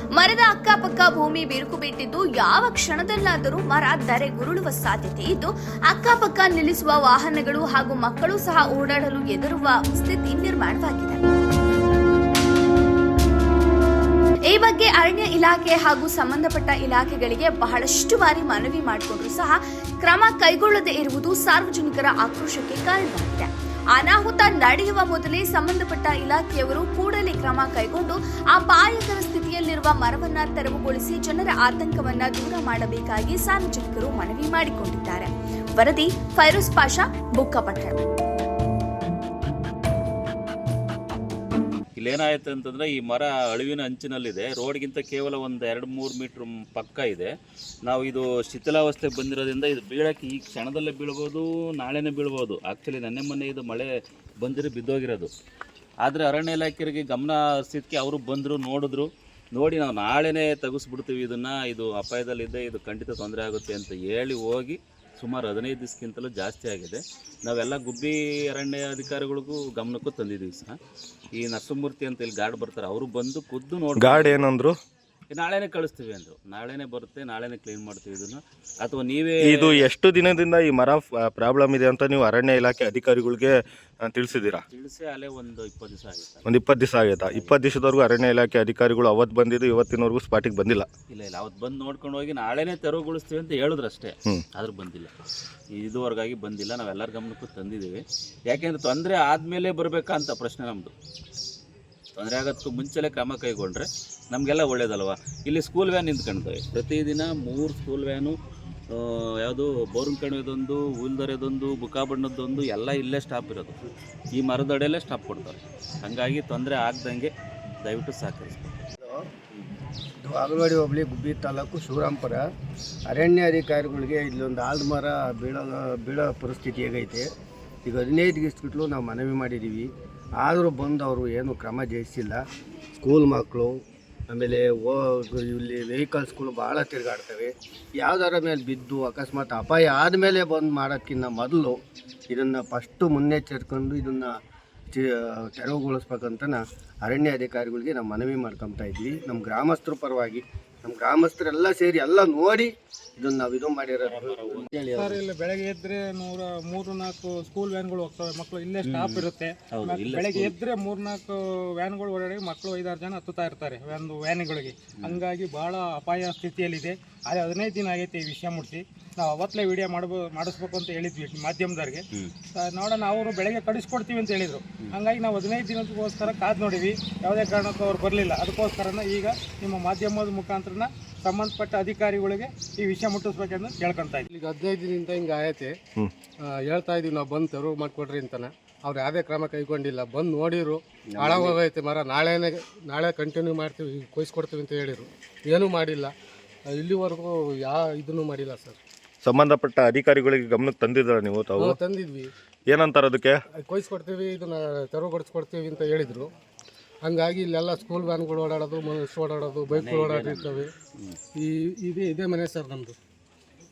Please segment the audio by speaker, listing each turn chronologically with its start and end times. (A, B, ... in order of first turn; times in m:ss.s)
0:00.2-0:11.2 A
0:14.5-0:37.9 A
0:42.0-0:47.3 B
0:47.8-0:53.9 B
0:54.4-0:55.3 B
0:56.0-1:10.8 B
1:11.4-1:14.4 B
1:14.0-1:14.7 C
1:15.3-1:19.9 B
1:19.4-1:24.6 C
1:24.7-1:26.5 B
1:26.4-1:30.9 C
1:27.2-1:27.6 B
1:31.1-1:35.1 B
1:35.8-1:38.0 B
1:38.5-1:40.9 B
1:42.2-1:48.4 B
1:48.9-1:53.8 B
1:54.4-1:57.3 B
1:57.8-1:58.7 B
1:59.0-1:59.3 D
2:00.2-2:02.4 D
2:03.1-2:07.3 D
2:07.8-2:12.4 D
2:13.0-2:13.8 D
2:14.3-2:21.8 D
2:22.3-2:24.3 D
2:24.9-2:35.2 D
2:34.0-2:34.7 B
2:35.0-3:04.2 E
2:38.8-2:40.5 B
3:04.3-3:05.7 F
3:06.5-3:16.1 F
3:16.7-3:18.8 F
3:19.2-3:21.8 C
3:21.6-3:22.3 F
3:22.7-3:23.4 C
3:23.6-3:26.3 F
3:27.0-3:30.7 F
3:29.7-3:31.2 B
3:31.4-3:33.0 F